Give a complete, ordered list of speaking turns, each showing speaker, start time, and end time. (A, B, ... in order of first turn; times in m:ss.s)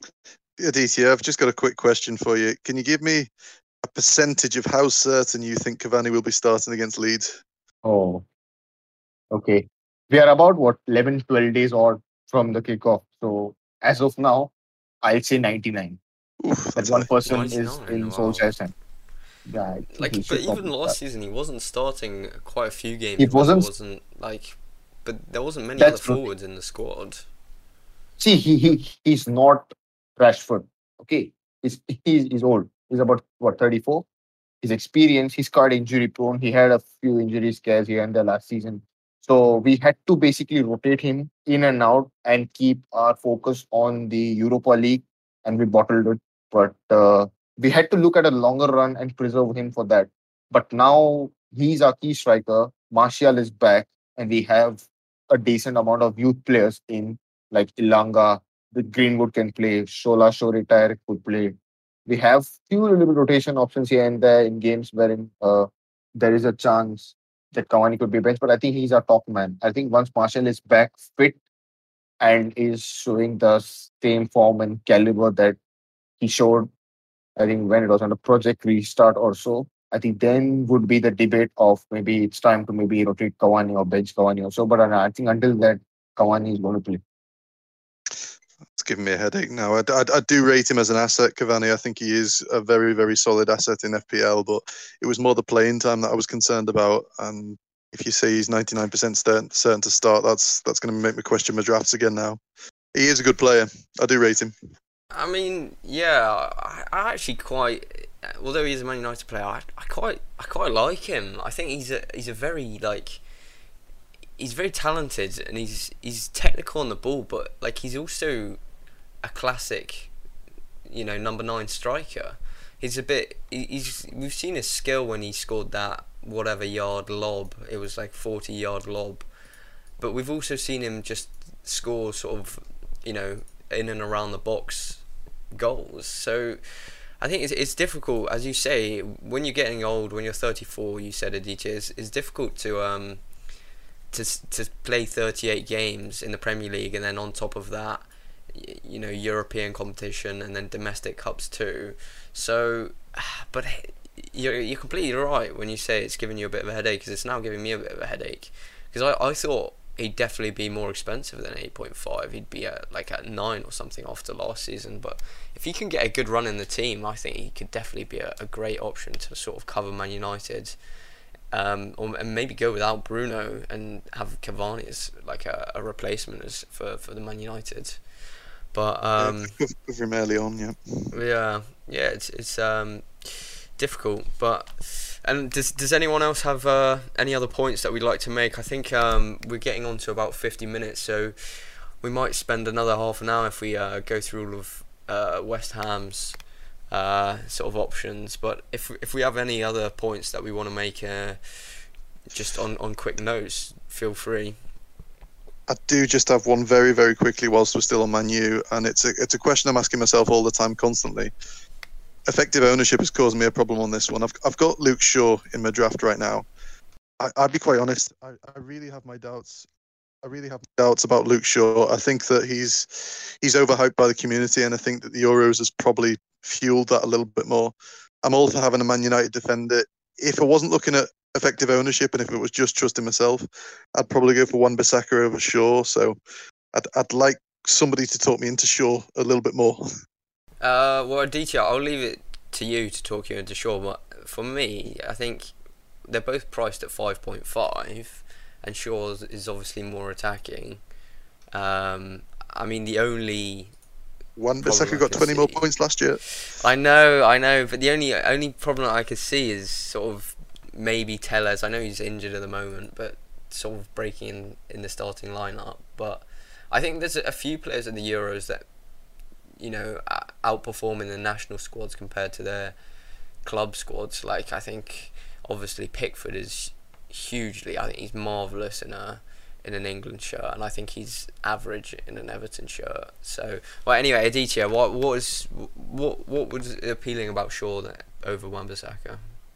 0:00.6-0:03.3 A
0:03.8-0:07.4 A
0:07.8-0:08.2 B
0:09.3-0:16.0 B
0:16.4-0:17.1 A
0:16.8-0:18.7 B
0:17.2-0:18.4 C
0:19.4-0:20.9 B
0:19.9-0:27.2 C
0:23.2-0:23.7 B
0:25.8-0:26.2 B
0:28.2-0:34.0 B
0:34.6-1:11.4 B
1:12.2-1:15.6 B
1:16.2-1:16.7 B
1:17.4-1:27.0 B
1:28.8-1:42.4 A
1:42.9-1:44.5 A
1:45.1-1:53.2 C
1:54.4-1:58.6 C
1:59.2-2:00.1 C
2:00.9-2:09.3 C
2:10.0-2:23.2 C
2:24.1-2:50.8 C
2:51.5-2:58.0 C
2:58.7-2:59.5 C
2:59.2-3:00.8 A
3:01.1-3:16.4 C
3:16.9-3:24.6 C
3:25.7-3:31.3 A
3:32.3-3:36.4 A
3:37.2-3:39.7 A
3:40.2-3:56.2 A
3:56.7-3:59.8 A
4:00.6-4:05.5 C
4:06.1-4:10.8 C
4:11.5-4:13.7 C
4:14.4-4:16.2 A
4:14.6-4:15.6 C
4:16.4-4:28.6 C
4:29.6-4:32.8 C
4:33.4-4:49.2 C